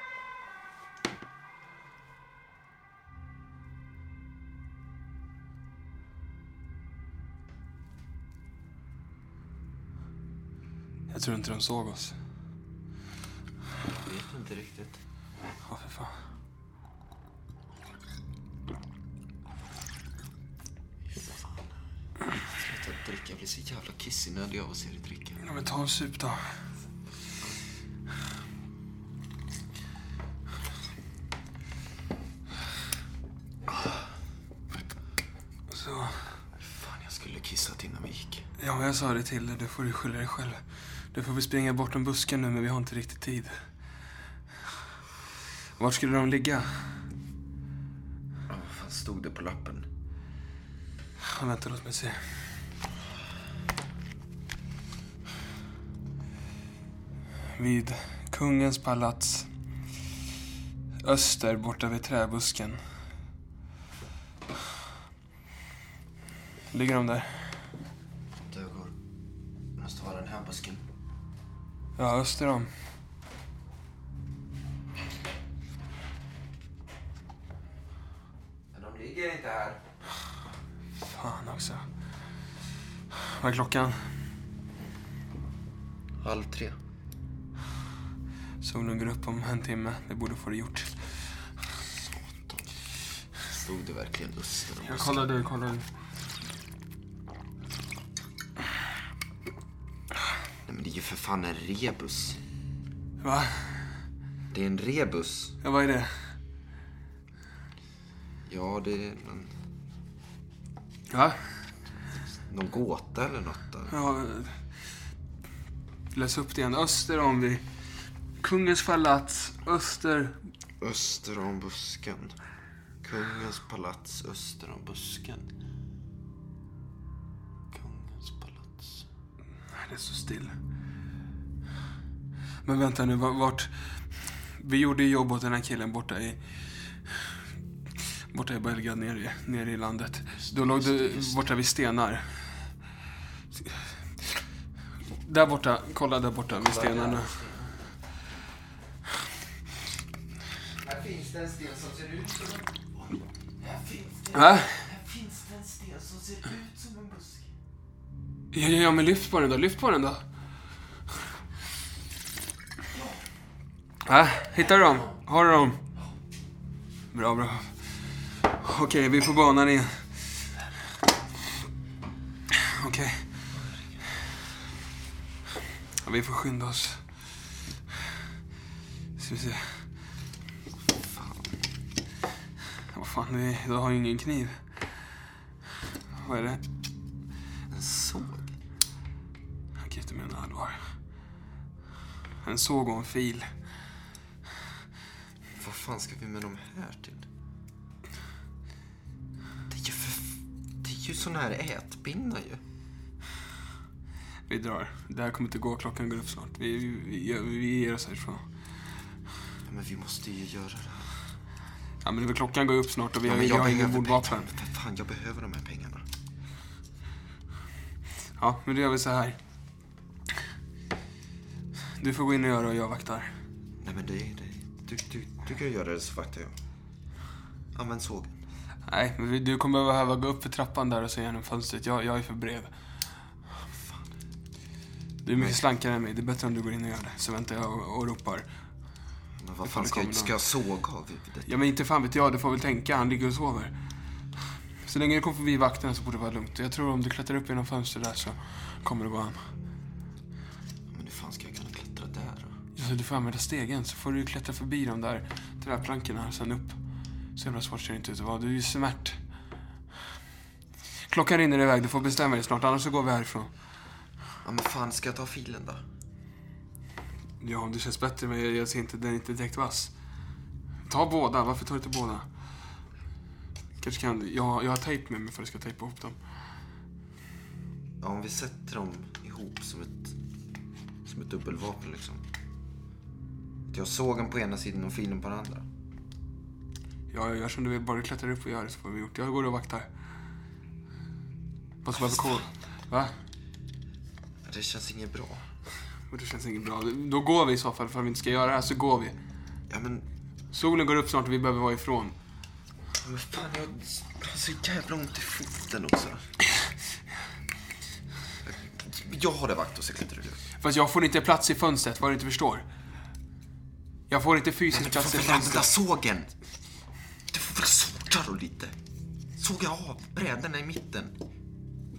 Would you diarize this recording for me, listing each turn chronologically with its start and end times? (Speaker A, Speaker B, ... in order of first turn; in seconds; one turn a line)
Speaker A: 11.1-12.1
Speaker B: 13.9-15.0
Speaker A: 15.7-16.1
Speaker B: 22.3-25.4
Speaker A: 25.4-26.4
Speaker A: 35.7-36.2
Speaker B: 36.5-38.4
Speaker A: 38.6-43.5
Speaker A: 45.8-46.7
Speaker B: 48.5-49.9
Speaker A: 51.2-52.2
Speaker A: 57.5-59.5
Speaker A: 61.0-62.8
Speaker A: 66.7-67.5
Speaker B: 68.5-68.9
Speaker B: 69.8-70.8
Speaker A: 72.0-72.7
Speaker B: 78.7-79.8
Speaker A: 81.0-81.8
Speaker A: 83.2-84.0
Speaker B: 86.2-86.8
Speaker A: 88.6-90.9
Speaker B: 91.9-92.7
Speaker B: 93.4-95.3
Speaker A: 94.8-95.9
Speaker B: 100.6-102.4
Speaker A: 103.2-103.8
Speaker B: 104.5-105.5
Speaker A: 105.6-106.1
Speaker B: 108.5-109.5
Speaker A: 111.1-111.3
Speaker B: 112.5-114.0
Speaker A: 113.9-114.6
Speaker A: 116.1-117.6
Speaker A: 118.4-120.4
Speaker B: 120.8-122.4
Speaker B: 123.0-125.5
Speaker B: 127.7-129.1
Speaker A: 129.7-130.6
Speaker A: 132.6-133.7
Speaker A: 134.6-136.4
Speaker A: 138.3-142.5
Speaker B: 140.4-141.5
Speaker A: 145.2-147.3
Speaker B: 146.5-147.9
Speaker B: 150.8-153.1
Speaker B: 153.6-157.5
Speaker A: 154.3-154.8
Speaker A: 158.5-160.2
Speaker A: 164.0-165.8
Speaker A: 167.1-167.8
Speaker A: 168.6-170.0
Speaker A: 172.5-173.2
Speaker A: 176.0-177.0
Speaker A: 179.2-179.7
Speaker B: 180.9-181.6
Speaker A: 182.9-184.6
Speaker A: 186.2-186.6
Speaker B: 187.7-188.5
Speaker A: 189.8-190.8
Speaker A: 192.4-193.4
Speaker B: 195.5-197.2
Speaker B: 199.7-202.6
Speaker A: 204.5-208.4
Speaker B: 209.7-211.1
Speaker A: 212.0-214.5
Speaker B: 213.2-216.0
Speaker A: 218.4-219.4
Speaker A: 222.0-223.3
Speaker B: 223.8-226.5
Speaker B: 227.7-228.4
Speaker A: 228.9-232.7
Speaker B: 233.7-234.0
Speaker A: 235.2-238.4
Speaker B: 235.3-235.6
Speaker B: 239.4-241.5
Speaker A: 239.6-240.3
Speaker A: 241.4-243.7
Speaker A: 244.8-249.4
Speaker B: 250.9-252.6
Speaker A: 252.8-256.8
Speaker A: 257.3-259.2
Speaker A: 261.1-263.5
Speaker B: 264.4-265.8
Speaker A: 267.4-269.9
Speaker A: 270.8-272.3
Speaker A: 273.8-276.2
Speaker B: 278.0-280.1
Speaker B: 281.0-282.2
Speaker B: 283.7-285.6
Speaker A: 287.1-289.9
Speaker A: 291.8-293.1
Speaker B: 291.9-292.4
Speaker B: 294.4-295.4
Speaker A: 296.1-299.1
Speaker B: 299.7-300.1
Speaker A: 300.5-302.1
Speaker B: 303.0-306.2
Speaker B: 308.4-310.4
Speaker A: 310.6-312.6
Speaker A: 314.1-315.7
Speaker B: 314.7-316.3
Speaker B: 317.3-318.7
Speaker B: 319.4-321.1